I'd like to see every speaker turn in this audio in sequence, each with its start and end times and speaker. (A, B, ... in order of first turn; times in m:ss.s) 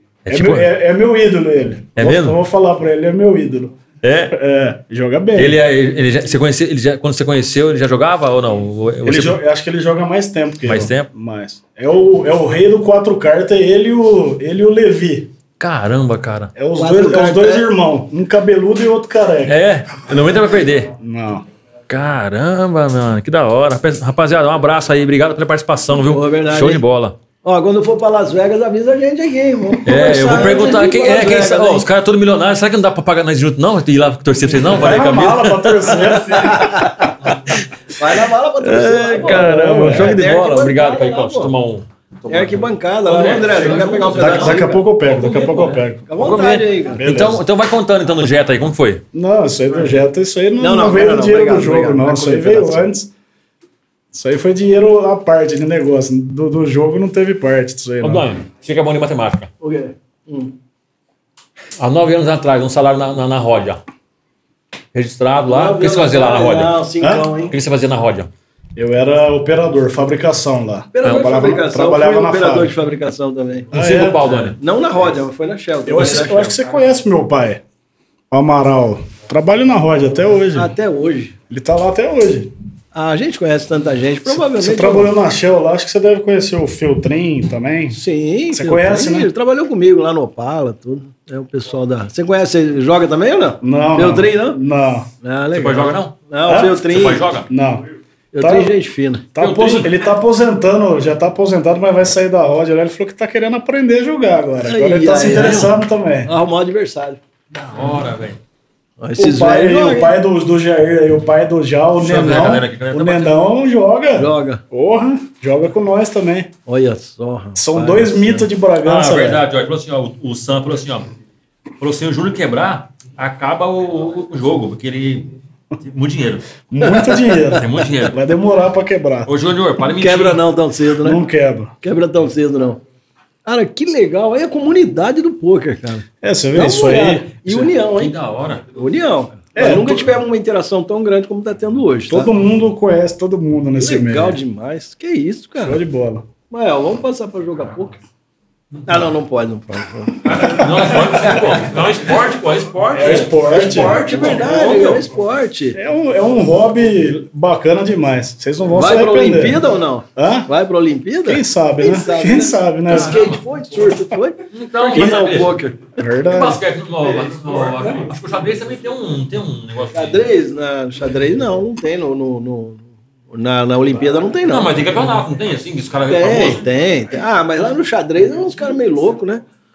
0:00.3-0:00.7 A
0:00.3-0:03.8 B
0:02.0-0:02.4 A
0:04.0-0:04.3 A
0:04.3-0:05.6 B
0:05.4-0:09.4 A
0:09.0-0:15.3 B
0:10.7-0:11.1 A
0:15.6-0:16.5 A
0:16.6-0:19.6 B
0:16.8-0:17.7 C
0:19.5-0:20.9 A
0:21.0-0:21.4 B
0:21.9-0:27.2 A
0:26.0-0:26.8 C
0:27.4-0:31.9 C
0:29.8-0:37.6 A
0:34.6-0:36.8 B
0:36.4-0:37.2 C
0:37.9-0:41.6 C
0:38.6-0:44.6 A
0:39.3-0:40.2 B
0:42.3-0:47.1 C
0:44.2-0:46.1 B
0:46.2-0:49.0 A
0:47.0-0:47.4 B
0:49.1-0:53.1 B
0:50.6-0:52.9 C
0:54.1-0:58.3 B
0:58.0-0:59.5 A
0:59.6-1:00.6 C
1:01.8-1:03.8 A
1:04.9-1:06.8 A
1:05.4-1:07.6 C
1:07.0-1:07.3 B
1:07.5-1:08.3 A
1:08.8-1:12.7 B
1:10.9-1:16.6 C
1:13.7-1:14.3 B
1:13.7-1:14.6 A
1:15.9-1:17.6 B
1:18.3-1:20.7 B
1:20.5-1:21.4 C
1:21.5-1:22.5 B
1:22.9-1:25.1 C
1:24.3-1:28.0 B
1:27.9-1:34.6 C
1:28.5-1:29.3 B
1:33.6-1:35.1 B
1:35.2-1:37.3 C
1:35.5-1:36.1 A
1:36.5-1:36.8 B
1:36.8-1:37.5 A
1:37.5-1:37.8 B
1:38.3-1:39.3 C
1:38.4-1:38.7 B
1:39.3-1:46.3 B
1:39.4-1:40.0 A
1:44.6-1:45.7 C
1:45.3-1:45.7 A
1:46.2-1:47.2 C
1:47.5-1:48.4 A
1:49.0-1:50.2 C
1:49.2-1:56.5 B
1:52.0-1:53.4 A
1:54.2-1:54.6 C
1:56.7-1:58.5 C
1:57.6-1:59.4 B
1:58.8-2:01.1 A
2:01.8-2:06.5 A
2:06.7-2:09.3 B
2:06.8-2:07.6 C
2:07.6-2:08.2 A
2:09.3-2:10.4 A
2:10.0-2:11.2 C
2:11.0-2:11.7 B
2:11.8-2:12.8 C
2:13.4-2:18.1 C
2:16.2-2:17.4 B
2:17.5-2:18.6 A
2:18.7-2:22.3 C
2:19.6-2:20.1 B
2:22.1-2:24.4 B
2:23.8-2:25.8 C
2:25.6-2:26.3 B
2:26.5-2:28.0 C
2:28.9-2:30.6 C
2:30.2-2:33.4 A
2:30.4-2:31.2 B
2:32.9-2:35.0 B
2:33.0-2:35.8 C
2:35.8-2:39.6 B
2:38.7-2:45.8 C
2:40.2-2:40.5 B
2:41.2-2:43.3 B
2:42.9-2:43.4 A
2:44.5-2:45.6 A
2:46.0-2:46.6 B
2:46.2-2:50.3 A
2:47.8-2:48.0 C
2:49.9-2:54.8 C
2:54.5-2:56.6 A
2:56.1-2:59.4 C